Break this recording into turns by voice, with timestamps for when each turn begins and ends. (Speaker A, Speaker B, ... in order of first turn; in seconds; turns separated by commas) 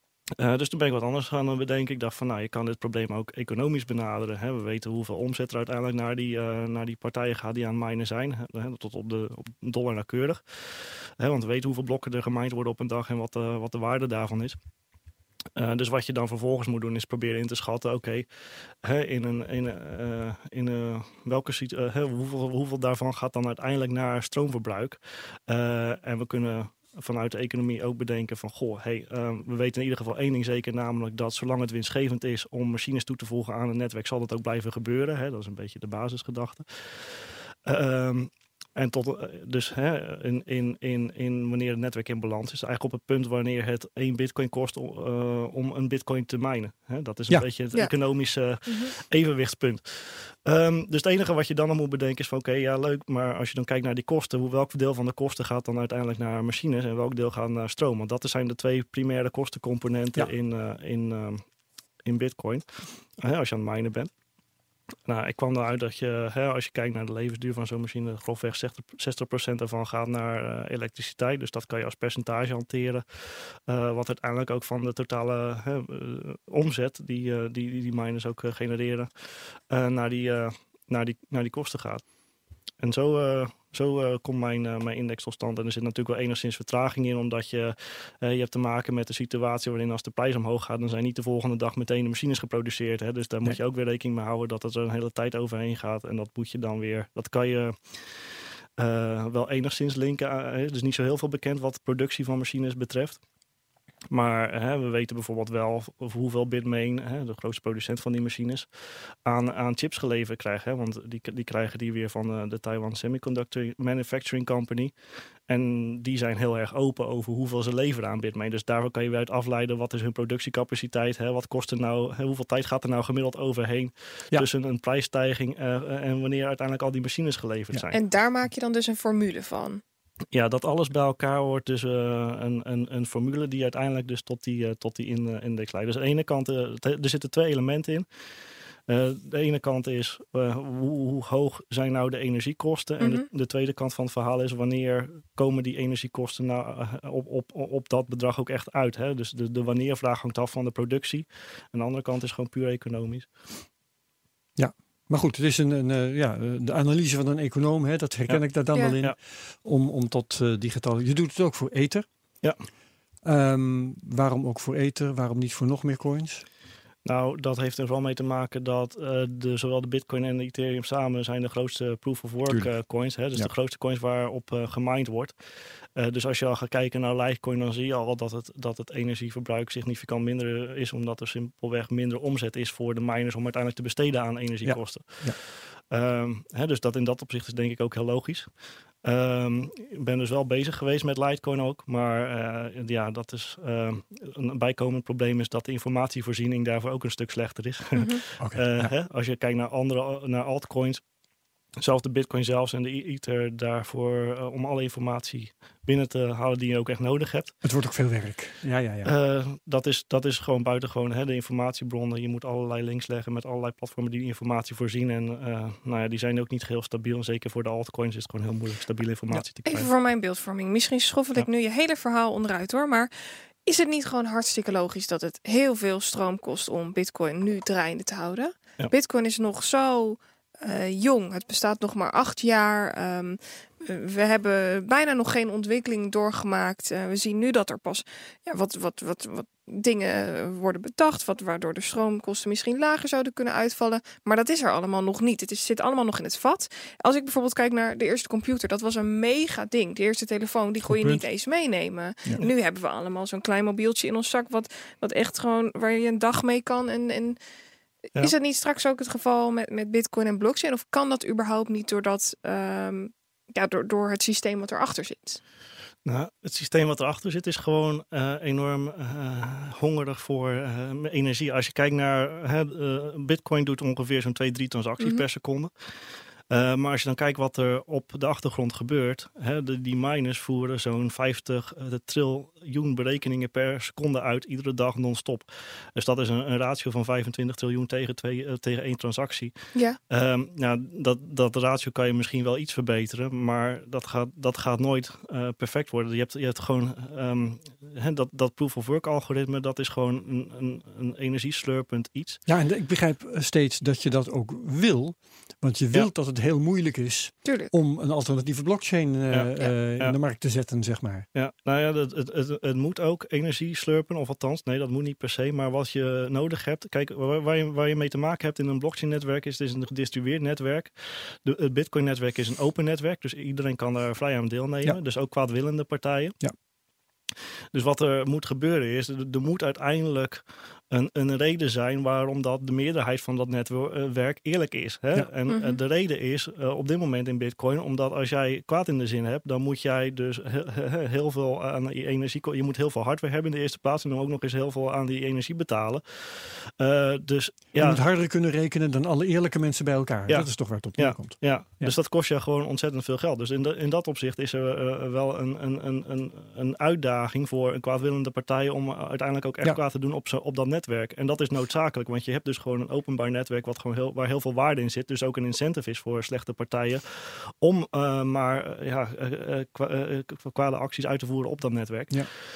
Speaker A: 0.4-14.6, Speaker A: 15.6-18.3, Speaker A: 18.8-61.4, Speaker B: 48.6-48.9, Speaker A: 62.0-64.1, Speaker A: 65.1-82.0, Speaker A: 82.8-98.3, Speaker A: 98.8-103.2, Speaker A: 104.1-108.7, Speaker A: 109.2-114.9, Speaker A: 115.5-128.0, Speaker B: 127.9-129.8, Speaker A: 130.3-138.1, Speaker A: 138.9-153.7, Speaker B: 143.0-143.2, Speaker C: 154.6-162.1, Speaker C: 163.2-166.4, Speaker A: 167.1-175.3, Speaker C: 172.5-172.8, Speaker A: 176.0-201.0, Speaker C: 184.6-185.4, Speaker C: 198.4-198.9, Speaker A: 201.8-207.6, Speaker C: 207.6-209.1, Speaker A: 209.1-219.9, Speaker B: 219.7-257.4, Speaker C: 250.9-251.2, Speaker B: 258.1-265.4, Speaker A: 266.1-275.7, Speaker A: 276.5-289.5, Speaker A: 290.1-302.4, Speaker C: 302.5-311.3, Speaker B: 307.4-307.7, Speaker A: 309.3-310.2, Speaker A: 311.3-326.4, Speaker A: 327.7-348.0, Speaker B: 335.5-335.8, Speaker C: 347.8-351.9, Speaker A: 350.3-372.2